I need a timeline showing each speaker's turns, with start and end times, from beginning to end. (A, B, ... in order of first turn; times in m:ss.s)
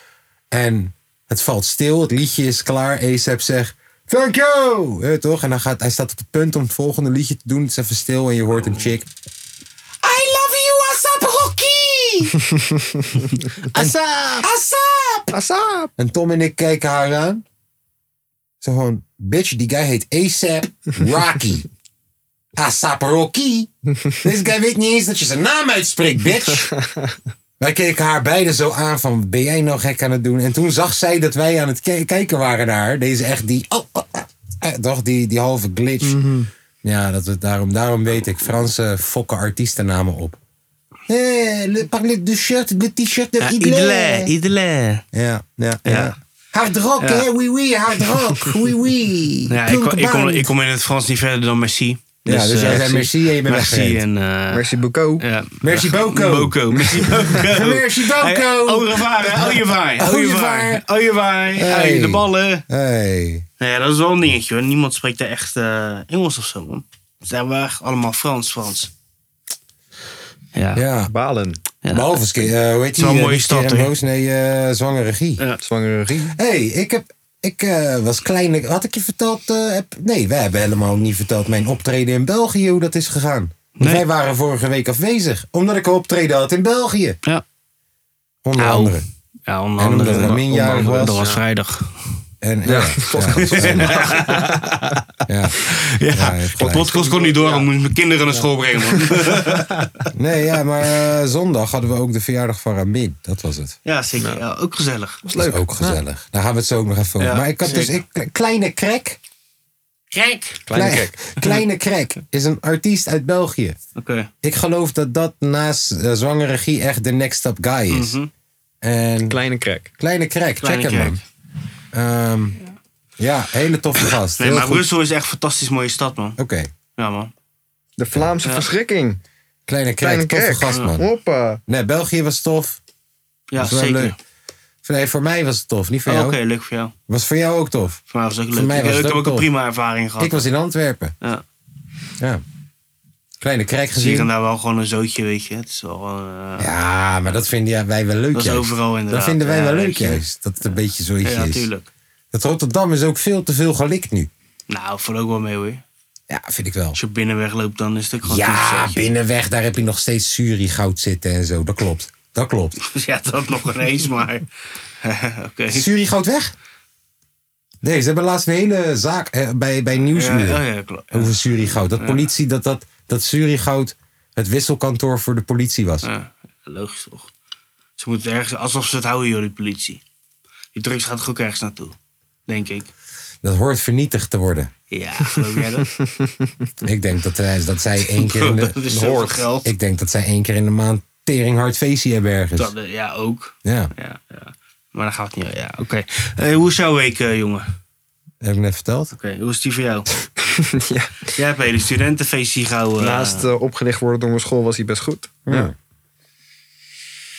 0:00.5-0:09.1 A
0:10.0-0:12.4 A
0:13.7-0:15.4 A
0:15.3-0:15.9 B
0:16.0-0:17.4 A
0:18.6-0:21.7 A
0:22.6-0:26.7 A
0:27.6-0:36.2 A
0:36.1-0:36.5 B
0:36.8-0:40.4 A
0:41.1-0:44.3 A
0:43.4-0:45.0 C
0:45.1-0:50.5 A
0:45.8-0:46.1 C
0:47.0-0:47.3 C
0:49.5-1:02.7 C
0:52.3-0:54.0 A
0:54.5-0:55.2 B
0:55.6-1:00.8 A
1:01.6-1:03.5 A
1:03.6-1:08.9 C
1:10.6-1:10.8 C
1:10.7-1:11.1 A
1:11.1-1:11.6 B
1:11.8-1:12.2 C
1:11.9-1:15.4 A
1:12.9-1:13.9 C
1:15.6-1:16.4 B
1:16.3-1:27.2 A
1:23.8-1:24.0 C
1:28.4-1:29.0 A
1:28.6-1:32.0 C
1:29.8-1:31.2 A
1:30.1-1:31.4 B
1:32.4-1:34.0 A
1:32.7-1:34.8 B
1:33.2-1:35.0 C
1:35.3-1:35.6 A
1:35.6-1:39.9 C
1:36.1-1:36.9 A
1:36.6-1:37.7 B
1:39.4-1:39.6 B
1:40.1-1:43.8 A
1:43.8-1:45.2 C
1:45.2-1:46.0 B
1:45.4-1:49.2 A
1:47.2-1:48.0 C
1:50.1-1:50.6 C
1:50.7-1:51.4 B
1:50.7-1:53.8 A
1:54.0-1:54.3 C
1:54.4-1:58.2 A
1:57.9-1:58.3 C
1:58.8-1:59.4 A
1:59.3-1:59.9 B
2:00.0-2:01.2 A
2:00.6-2:01.2 C
2:01.9-2:02.6 A
2:03.2-2:04.9 A
2:04.4-2:06.4 C
2:06.4-2:06.7 A
2:07.0-2:07.3 C
2:08.0-2:09.2 B
2:08.4-2:08.7 C
2:09.7-2:11.0 A
2:10.0-2:11.6 B
2:11.7-2:12.8 A
2:13.5-2:14.2 C
2:13.6-2:14.2 A
2:14.8-2:16.4 A
2:16.1-2:17.0 C
2:17.1-2:18.0 A
2:18.1-2:20.4 C
2:18.5-2:19.5 A
2:20.2-2:21.2 A
2:23.4-2:24.3 A
2:24.0-2:26.7 C
2:26.6-2:31.7 A
2:28.3-2:30.2 C
2:31.2-2:31.9 C
2:32.3-2:34.3 A
2:34.7-2:35.8 C
2:36.3-2:37.0 A
2:36.9-2:39.1 C
2:38.2-2:42.8 A
2:42.8-2:44.5 C
2:45.0-2:45.9 C
2:45.7-2:46.5 A
2:47.8-2:56.1 A
2:50.2-2:51.4 C
2:52.0-2:52.3 C
2:56.0-2:57.3 C
2:58.0-3:00.0 C
3:00.8-3:02.0 C
3:02.5-3:02.9 C
3:03.4-3:04.7 A
3:04.9-3:05.9 C
3:06.1-3:06.3 B
3:06.8-3:12.7 A
3:08.2-3:09.7 C
3:09.0-3:09.4 B
3:12.6-3:17.7 C
3:13.6-3:13.9 A
3:18.4-3:19.1 A
3:19.1-3:20.1 C
3:20.6-3:21.3 B
3:21.3-3:23.5 C
3:23.0-3:25.7 B
3:25.5-3:25.8 A